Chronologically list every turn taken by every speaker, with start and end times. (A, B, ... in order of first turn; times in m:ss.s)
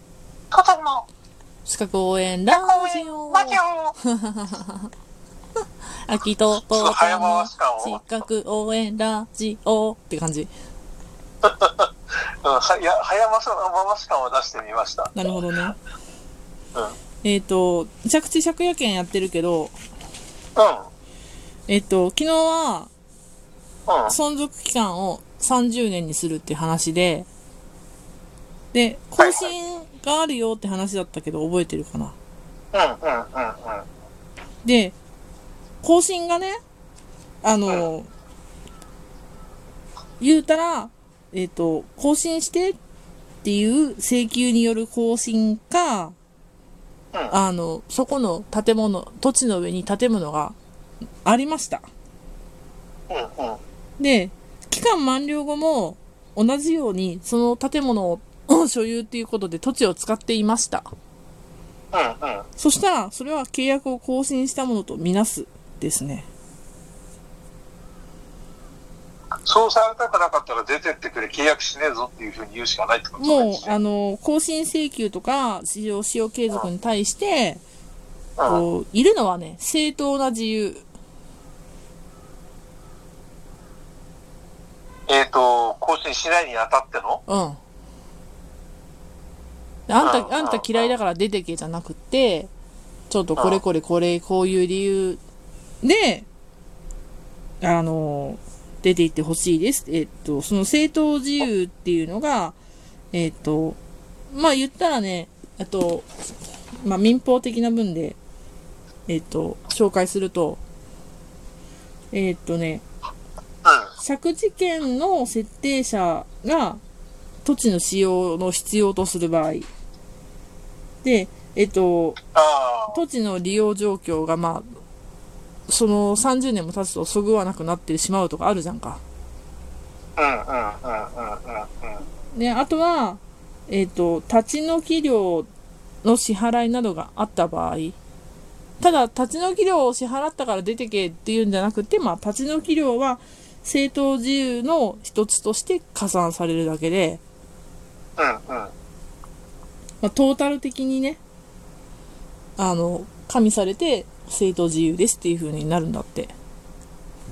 0:00.5-0:01.0 A
0:01.7-0:04.9 B
0:02.5-0:04.0 A
0:06.0-0:10.5 B
0:06.7-0:08.0 A
0:11.4-0:15.3 A
0:15.1-0:15.8 B
0:17.2-0:19.8 B
0:20.6-0:20.9 A
0:21.7-0:22.9 B
0:23.9-0:24.1 A
0:24.1-0:27.3 B
0:28.7-0:32.2 B
0:29.2-0:29.5 A
0:32.7-0:33.8 A
0:34.6-0:35.0 B
0:35.8-0:36.6 B
0:37.4-0:38.1 B
0:40.2-0:42.8 B
0:43.4-0:46.2 B
0:47.3-0:50.6 B
0:51.2-0:51.8 B
0:53.1-0:53.6 A
0:54.0-1:00.9 B
1:01.9-1:02.5 A
1:02.6-1:06.3 B
1:09.4-1:13.8 A
1:13.2-1:17.6 B
1:18.4-1:18.6 A
1:18.4-1:20.8 B
1:25.1-1:27.2 A
1:27.3-1:27.6 B
1:29.9-1:32.5 B
1:30.0-1:30.9 A
1:33.1-1:35.2 B
1:33.4-1:33.6 A
1:35.8-1:36.3 B
1:37.6-1:42.6 B
1:43.1-1:43.8 B
1:44.3-1:46.1 B
1:46.8-1:48.2 B
1:49.1-1:50.6 B
1:52.1-1:52.8 B
1:53.6-1:53.9 A
1:54.0-1:56.8 B
1:57.4-1:59.7 B
2:01.0-2:02.2 B
2:02.3-2:03.0 A
2:02.9-2:04.7 B
2:05.7-2:09.0 B
2:10.2-2:12.0 A
2:12.3-2:15.5 B
2:16.0-2:18.0 B
2:18.8-2:27.2 B
2:28.2-2:28.7 A
2:30.0-2:31.2 B
2:32.6-2:36.3 B